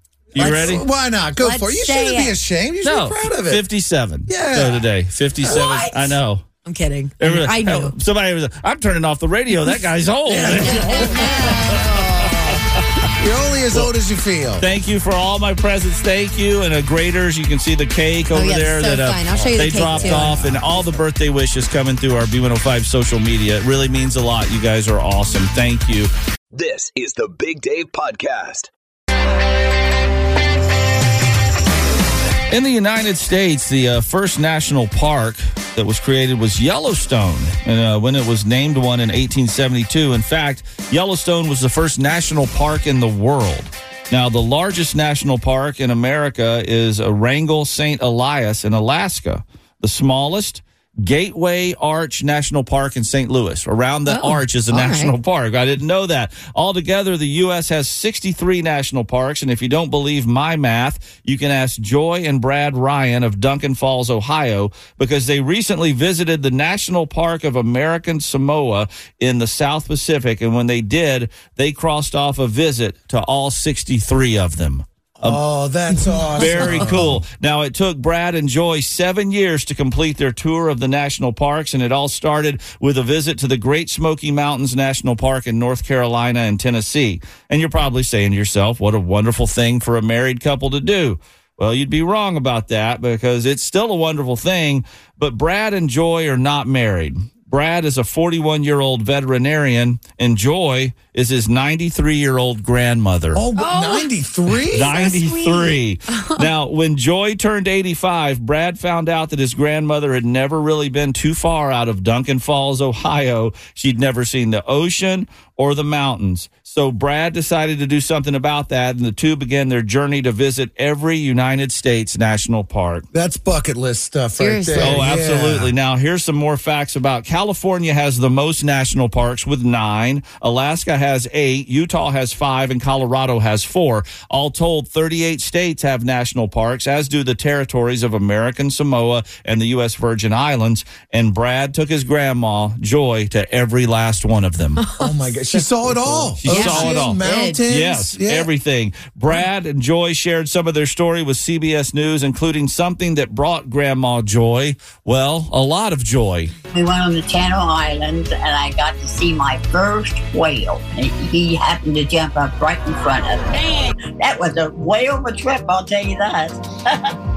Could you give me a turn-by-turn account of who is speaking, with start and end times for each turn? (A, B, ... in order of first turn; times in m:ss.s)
0:00.3-0:00.8 A
0:00.4-0:03.6 B
0:00.4-0:00.7 C
0:01.4-0:02.4 C
0:02.8-0:06.4 A
0:04.3-0:04.9 B
0:05.4-0:05.8 B
0:05.4-0:06.1 C
0:06.6-0:07.9 C
0:07.2-0:12.8 A
0:10.3-0:14.7 B
0:10.4-0:11.8 C
0:14.6-0:26.1 A
0:18.3-0:20.5 C
0:19.4-0:21.0 B
0:26.5-0:28.7 D
0:32.5-1:15.4 A
0:54.1-0:55.1 C
1:15.2-1:17.2 B
1:16.4-1:43.4 A
1:16.8-1:17.0 C
1:43.3-1:45.0 B
1:43.6-1:44.1 C
1:44.7-1:46.5 C
1:44.7-2:03.0 A
2:03.1-2:05.7 B
2:04.4-2:05.1 C
2:04.8-2:24.8 A
2:24.8-2:25.6 C
2:25.0-2:28.5 B
2:26.4-2:36.5 A
2:26.4-2:27.6 C
2:36.7-2:46.6 E